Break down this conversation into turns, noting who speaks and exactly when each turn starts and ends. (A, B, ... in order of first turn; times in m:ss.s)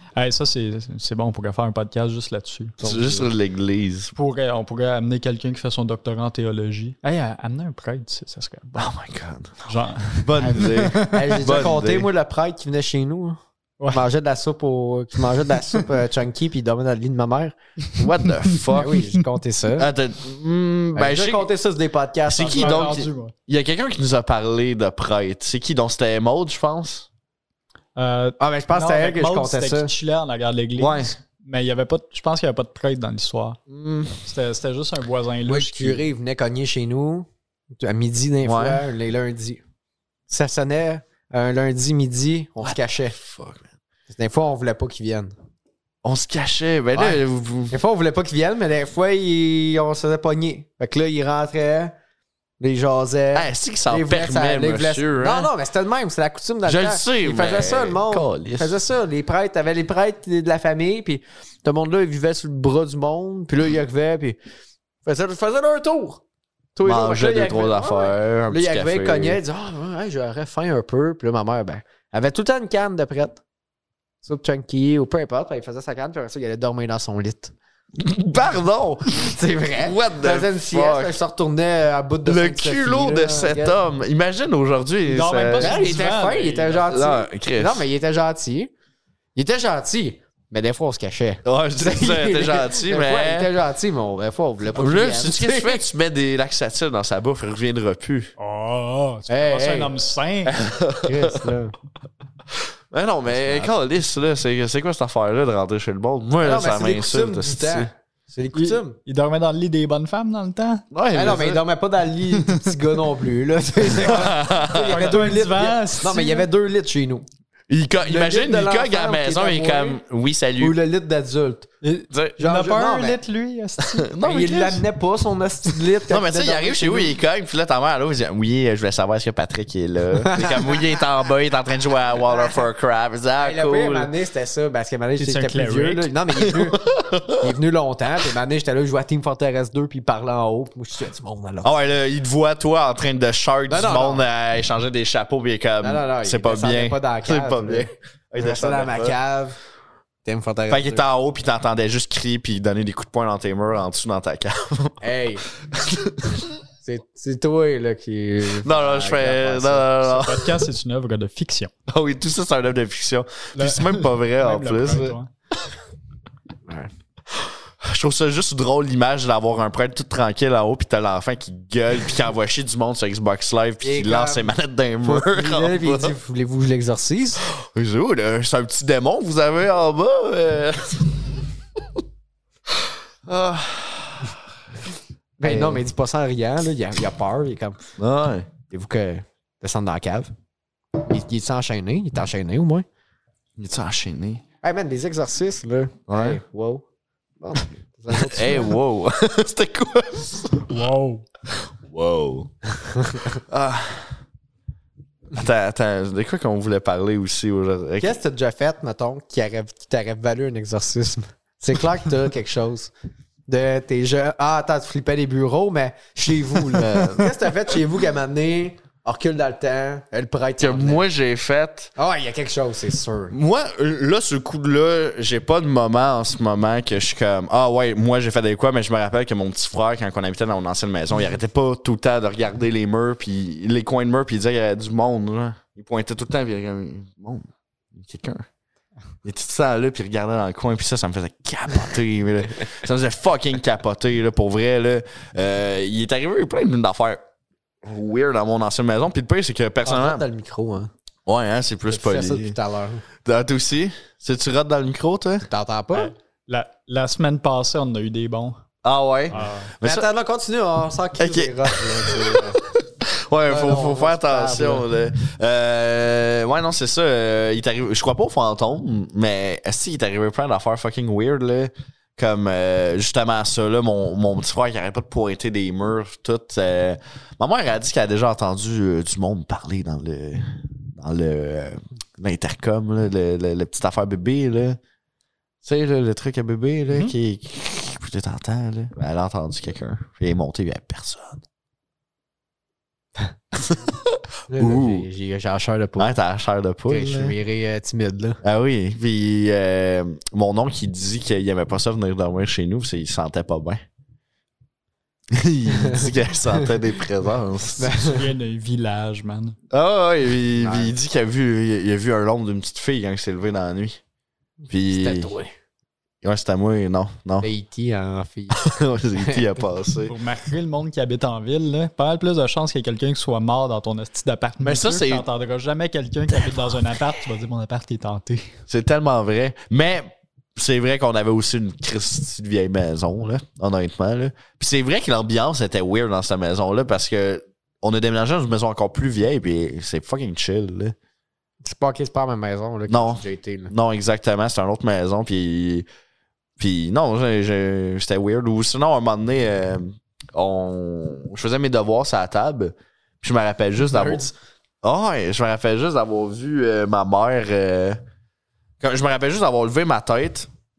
0:00.2-0:02.8 A
0:02.8-0:03.3 B
0:02.8-0:04.1 C
0:04.2-0:08.8 A
0:08.7-0:12.1 C
0:09.6-0:11.5 A
0:10.4-0:13.4 B
0:13.9-0:17.6 B
0:18.0-0:19.0 C
0:18.7-0:19.9 B
0:19.8-0:21.5 C
0:20.9-0:22.9 B
0:22.3-0:27.1 C
0:22.4-0:23.3 A
0:28.0-0:33.6 A
0:28.4-0:29.9 B
0:30.8-0:31.1 C
0:33.7-0:34.2 B
0:34.2-0:36.0 A
0:35.5-0:37.3 B
0:37.8-0:39.6 B
0:38.4-0:38.8 C
0:40.3-0:43.2 B
0:42.6-0:43.7 C
0:44.1-0:45.3 B
0:46.0-0:47.8 C
0:46.9-0:51.9 B
0:52.6-1:04.4 B
0:53.3-0:55.5 C
0:56.6-0:58.7 C
1:05.0-1:06.2 B
1:06.8-1:13.4 B
1:06.8-1:09.4 C
1:14.2-1:17.5 B
1:18.0-1:21.1 C
1:19.1-1:23.8 B
1:22.2-1:25.8 C
1:25.1-1:26.8 A
1:25.6-1:28.7 B
1:26.9-1:27.8 C
1:29.3-1:35.8 B
1:31.4-1:33.5 C
1:34.7-1:38.3 C
1:38.4-1:40.6 A
1:39.3-1:39.9 B
1:40.4-1:41.5 C
1:41.0-1:41.7 B
1:42.5-1:47.9 C
1:43.3-1:43.7 B
1:46.4-1:49.0 B
1:48.5-1:50.8 A
1:50.9-1:51.6 C
1:51.1-1:57.2 B
1:53.9-1:55.1 C
1:54.7-1:56.5 A
1:57.7-2:00.8 C
1:58.0-2:00.0 B
2:00.6-2:01.7 B
2:01.8-2:04.1 A
2:02.1-2:02.4 C
2:02.4-2:03.2 B
2:03.8-2:04.8 C
2:04.2-2:07.1 B
2:06.1-2:14.1 C
2:10.2-2:10.8 B
2:12.3-2:12.6 B
2:13.4-2:16.8 B
2:15.2-2:16.1 A
2:16.5-2:17.4 C
2:17.4-2:21.7 B
2:21.6-2:29.2 C
2:23.7-2:24.2 B
2:25.8-2:29.6 B
2:30.2-2:31.0 B
2:30.7-2:35.0 C
2:35.0-2:35.4 B
2:35.6-2:36.5 C
2:36.8-2:39.9 B
2:38.6-2:40.6 C
2:40.0-2:41.7 A
2:41.9-2:45.2 C
2:43.6-2:45.3 A
2:47.3-2:56.1 C
2:53.8-2:54.5 B
2:55.0-2:57.4 B
2:57.5-3:01.4 C
3:02.7-3:04.4 C
3:05.4-3:07.8 B
3:05.4-3:05.8 C
3:08.0-3:08.5 C
3:08.7-3:10.3 B
3:11.0-3:12.8 B
3:13.6-3:14.4 C
3:14.6-3:16.8 B
3:16.1-3:16.4 C
3:17.4-3:18.8 B
3:18.1-3:20.8 C
3:20.7-3:21.2 A
3:21.5-3:22.5 C
3:23.2-3:24.2 C
3:25.3-3:28.2 C
3:28.0-3:32.9 B
3:33.5-3:41.0 B
3:36.7-3:37.3 C
3:40.6-3:41.9 C
3:42.0-3:43.3 B
3:43.3-3:58.4 C
3:59.2-4:07.2 C
4:07.8-4:10.2 C
4:09.8-4:10.9 B
4:11.2-4:12.6 C
4:11.9-4:13.0 B
4:13.2-4:15.5 C
4:15.5-4:16.1 B
4:15.9-4:18.6 A
4:18.8-4:20.1 C
4:19.3-4:19.7 A
4:19.8-4:22.6 B
4:21.2-4:44.8 C
4:23.5-4:24.8 B
4:45.6-4:51.4 C
4:53.5-4:55.0 C
4:54.5-4:56.1 B
4:56.0-4:57.3 C
4:56.9-4:58.4 B
4:58.4-5:03.8 C
5:05.3-5:07.9 C
5:05.7-5:06.7 B
5:07.8-5:08.2 B
5:07.9-5:09.6 A
5:09.7-5:14.0 C
5:10.6-5:10.9 B
5:14.7-5:15.3 C
5:14.8-5:15.5 B
5:16.2-5:17.5 C
5:17.4-5:19.4 B
5:18.5-5:20.1 C
5:20.1-5:28.5 A
5:24.6-5:25.2 C
5:28.7-5:41.0 C
5:41.6-5:43.7 B
5:42.9-5:45.8 C
5:46.6-5:54.2 C
5:53.8-5:54.3 B
5:54.8-5:58.0 C
5:58.8-6:00.5 C